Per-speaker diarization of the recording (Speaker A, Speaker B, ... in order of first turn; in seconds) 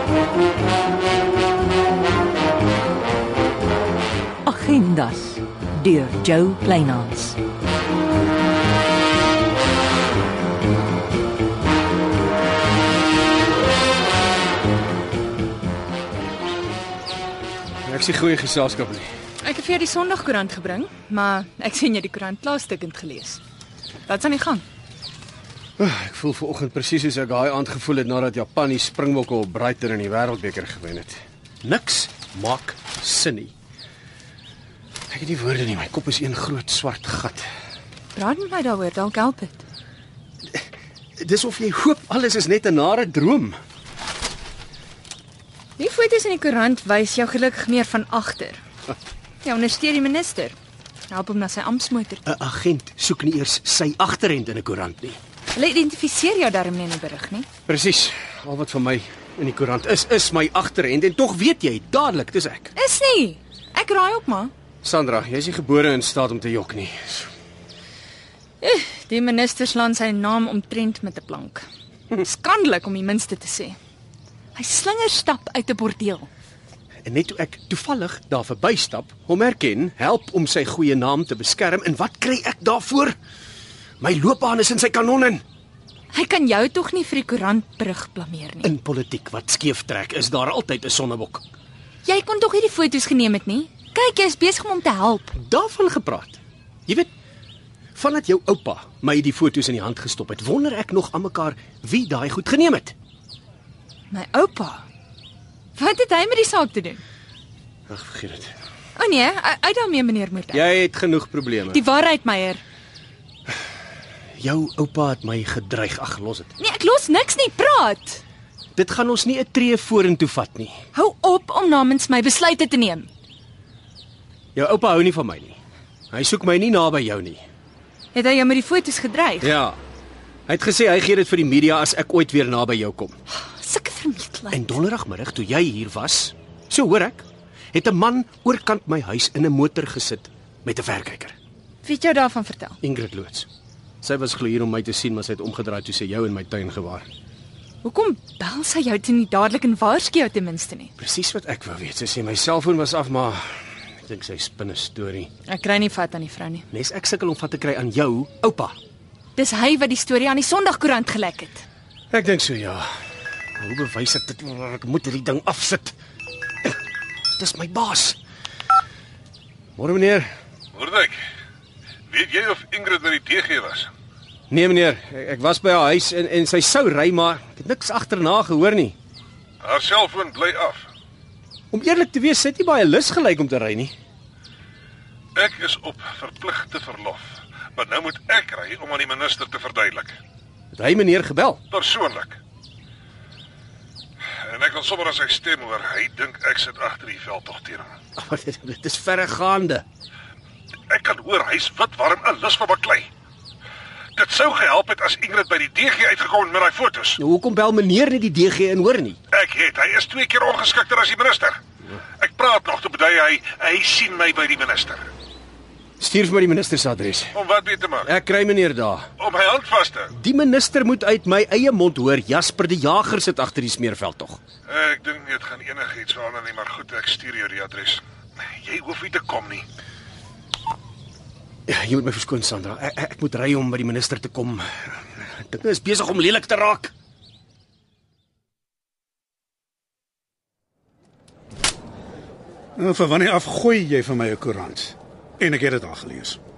Speaker A: 4.4-7.4
Speaker B: 17.8-19.1, 25.8-33.5, 35.1-37.4, 40.5-43.6, 52.2-55.2, 57.7-62.7, 64.8-67.3, 77.0-83.2, 84.0-85.4, 88.6-91.4, 95.4-97.1, 98.0-102.9, 107.9-108.5, 110.5-111.8, 114.4-116.5, 118.7-120.8, 124.5-125.6, 126.1-127.4, 129.4-129.8, 130.5-133.2, 134.5-141.3, 142.8-143.5, 144.0-147.1, 151.0-155.3, 156.7-158.8, 162.1-162.9, 163.6-165.9, 167.4-168.2, 169.8-170.3, 174.5-178.9, 181.7-183.9, 190.7-191.6, 198.2-199.8, 207.2-209.2, 216.0-217.4, 218.0-219.1, 220.1-224.4, 231.7-236.9
Speaker C: 19.4-23.4, 24.1-24.6, 38.1-39.6, 45.8-48.6, 49.4-50.5, 51.1-52.2, 55.5-57.5, 62.7-64.5, 68.6-73.8, 74.5-76.3, 86.1-88.7, 92.0-95.3, 104.1-104.8, 105.7-107.0, 109.0-110.7, 111.7-112.6, 116.6-118.2, 120.9-123.1, 128.1-129.5, 133.3-134.7, 141.8-142.8, 147.8-150.9, 155.5-156.6, 159.3-161.6
Speaker D: 170.7-171.2, 172.1-173.9, 179.6-180.8, 185.3-187.2, 187.7-190.2, 191.7-192.4, 194.4-197.9, 200.9-203.1, 204.2-207.2, 209.3-211.6, 212.2-215.1, 217.3-218.1, 219.2-220.1, 224.7-229.7
Speaker E: 242.8-246.4